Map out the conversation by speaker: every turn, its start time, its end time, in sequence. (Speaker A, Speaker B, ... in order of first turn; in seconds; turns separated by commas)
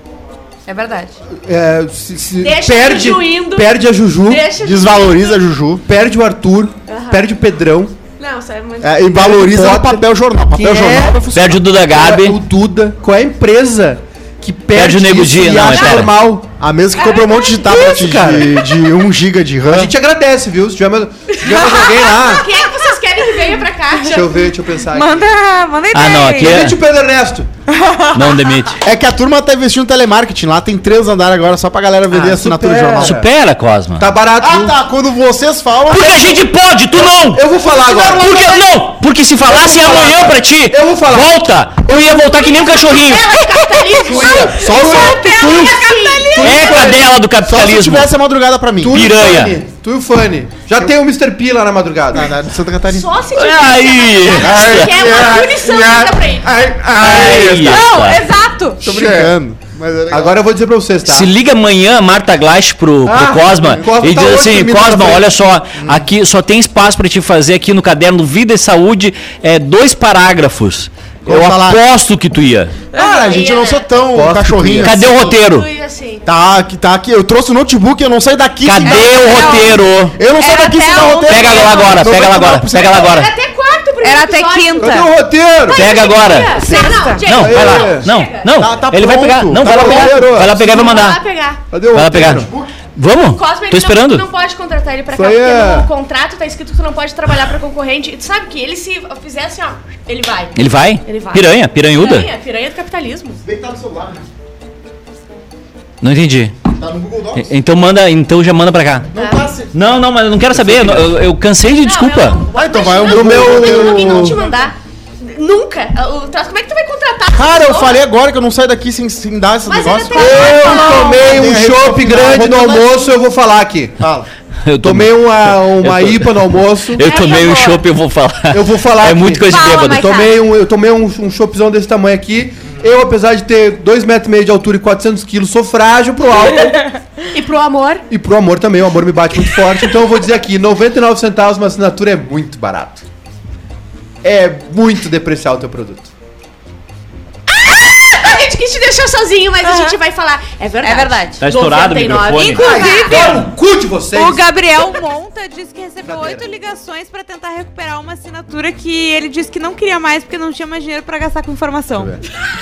Speaker A: 0.7-1.2, Speaker B: 1.2-4.5, Speaker C: 2.4-5.4, Speaker D: 4.5-5.8, Speaker B: 5.8-8.0, Speaker C: 6.9-7.3, Speaker C: 8.2-9.1, Speaker D: 8.8-11.6, Speaker B: 9.1-11.3, Speaker E: 11.3-12.4, Speaker B: 11.9-16.5, Speaker E: 14.7-16.1, Speaker D: 16.6-19.9, Speaker C: 16.9-17.8, Speaker B: 17.6-18.6, Speaker B: 19.7-22.4, Speaker A: 21.5-22.4, Speaker C: 21.5-24.3, Speaker A: 23.5-24.3, Speaker B: 24.1-25.2, Speaker A: 24.9-26.7, Speaker E: 25.9-26.8, Speaker B: 26.4-27.5, Speaker A: 27.7-28.5, Speaker E: 28.1-28.8, Speaker D: 28.8-33.2, Speaker B: 32.1-33.3, Speaker E: 33.0-34.1, Speaker B: 34.0-34.7, Speaker D: 34.4-36.4, Speaker E: 35.9-45.8, Speaker B: 37.0-38.6, Speaker B: 39.4-41.3, Speaker C: 42.5-47.0, Speaker B: 44.0-47.2, Speaker A: 44.3-46.4, Speaker E: 46.4-48.1, Speaker D: 47.4-49.1, Speaker B: 48.8-52.3, Speaker E: 48.9-49.6, Speaker D: 52.1-53.1, Speaker C: 52.9-56.5, Speaker E: 53.3-54.9, Speaker D: 54.4-56.1, Speaker B: 54.5-57.8, Speaker E: 57.0-58.2, Speaker D: 57.0-57.6, Speaker A: 57.7-58.8, Speaker B: 58.8-59.3, Speaker D: 58.8-60.4, Speaker B: 60.1-61.3, Speaker E: 61.0-72.8, Speaker B: 63.0-65.6, Speaker D: 63.6-63.9, Speaker D: 65.8-66.1, Speaker D: 71.2-71.8, Speaker C: 72.9-73.8, Speaker D: 73.0-75.4, Speaker A: 73.0-73.5, Speaker B: 74.0-75.0, Speaker E: 74.8-75.7, Speaker C: 75.2-76.3, Speaker D: 76.2-83.1, Speaker E: 78.6-80.2, Speaker A: 78.8-79.7, Speaker A: 80.4-82.0, Speaker E: 81.3-83.3, Speaker C: 82.8-85.0, Speaker A: 84.0-85.1, Speaker B: 84.8-85.9, Speaker C: 85.7-88.7, Speaker E: 85.7-86.6, Speaker A: 86.5-87.2, Speaker E: 87.2-91.2, Speaker B: 87.3-88.1, Speaker D: 88.5-90.4, Speaker B: 89.6-91.0, Speaker C: 90.6-91.6, Speaker B: 91.7-92.5, Speaker E: 91.9-94.3, Speaker D: 92.2-92.7, Speaker C: 93.2-103.4, Speaker B: 95.1-95.9, Speaker E: 100.5-102.3, Speaker D: 103.4-104.2, Speaker E: 106.0-106.5, Speaker D: 106.7-107.5, Speaker E: 107.3-109.1, Speaker D: 109.1-109.9, Speaker C: 109.2-109.5, Speaker E: 109.7-112.4, Speaker D: 110.5-111.1, Speaker C: 111.7-118.0, Speaker D: 112.5-114.7, Speaker B: 113.0-114.4, Speaker D: 117.3-123.0, Speaker C: 119.7-121.2, Speaker A: 120.1-121.1, Speaker B: 120.1-124.0, Speaker D: 124.0-124.3, Speaker E: 124.6-130.1, Speaker B: 124.8-127.0, Speaker A: 127.0-127.8, Speaker B: 128.5-136.8, Speaker A: 129.5-130.4, Speaker A: 136.5-137.0, Speaker C: 137.3-138.1, Speaker B: 138.1-143.0, Speaker B: 144.2-146.1, Speaker C: 147.5-153.3, Speaker A: 149.6-150.0, Speaker A: 150.8-151.4, Speaker E: 151.4-153.2, Speaker A: 152.3-153.5, Speaker B: 152.6-154.5, Speaker A: 154.1-162.1, Speaker B: 156.0-156.4, Speaker B: 162.0-162.2